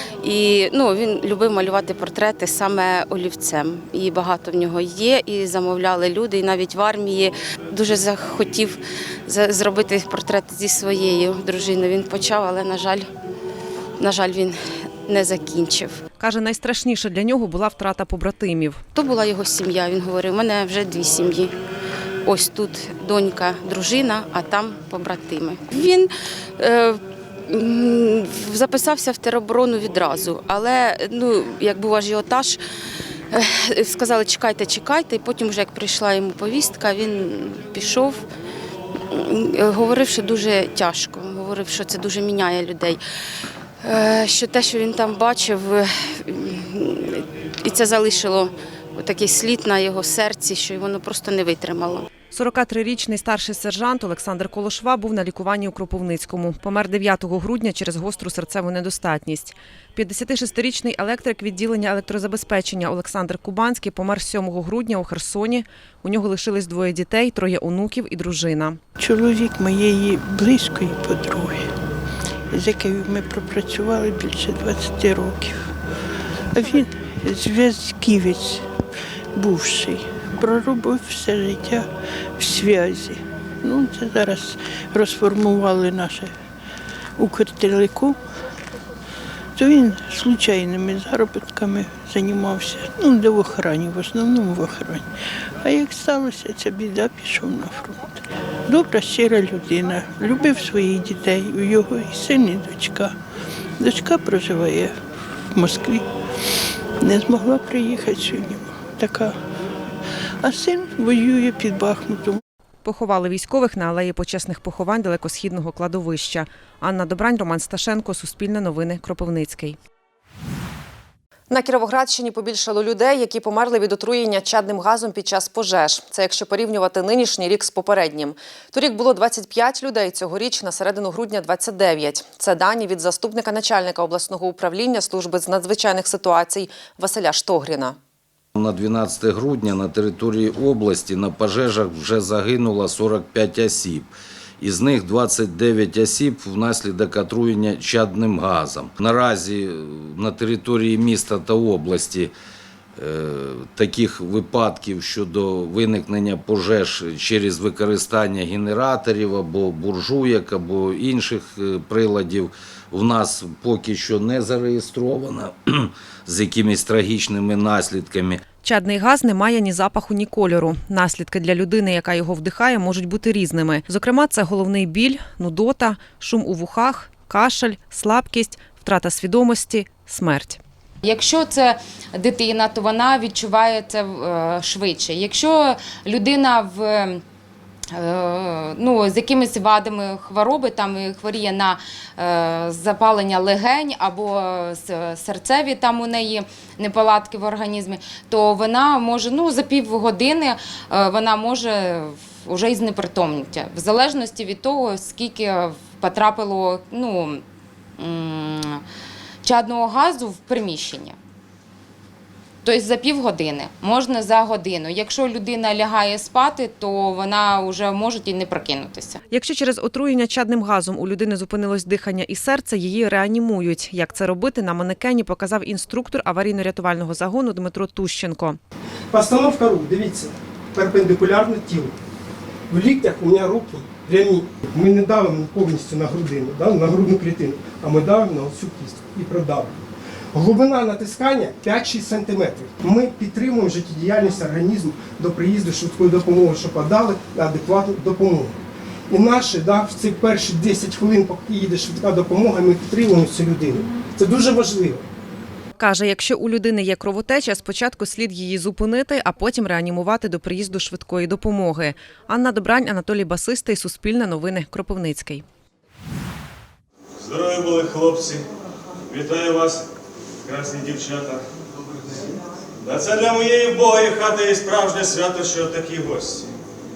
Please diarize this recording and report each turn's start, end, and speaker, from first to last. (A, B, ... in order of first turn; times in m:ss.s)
0:00.2-0:13.1 A
0:14.0-0:16.0 A
0:16.2-0:18.8 B
0:18.9-0:21.5 A
0:22.2-0:32.6 A
0:33.3-0:38.2 A
0:39.1-0:43.0 A
0:43.8-0:52.1 A
0:52.3-1:08.8 B
1:09.0-1:11.7 C
1:12.5-1:15.7 C
1:16.5-1:18.7 C
1:19.3-1:26.3 C
1:27.2-1:28.2 C
1:29.6-1:35.1 C
1:35.6-1:38.2 C
1:38.7-1:43.2 C
1:43.8-1:45.0 C
1:45.5-1:46.0 C
1:47.0-1:49.4 C
1:50.4-1:52.4 C
1:52.8-1:59.8 B
2:01.5-2:18.0 B
2:18.6-2:32.3 D
2:33.0-2:48.4 D
2:48.6-3:00.6 B
3:01.0-3:07.2 E
3:08.0-3:27.4 E
3:28.0-3:28.8 E
3:29.4-3:31.2 E
3:32.6-3:39.2 E
3:39.3-3:48.6 B
3:49.1-3:52.0 F
3:52.7-3:59.8 F
4:00.3-4:08.6 F
4:09.1-4:15.0 F
4:15.8-4:25.4 B
4:27.2-4:28.4 G
4:29.1-4:29.8 G
4:30.5-4:31.4 G
4:32.9-4:36.5 G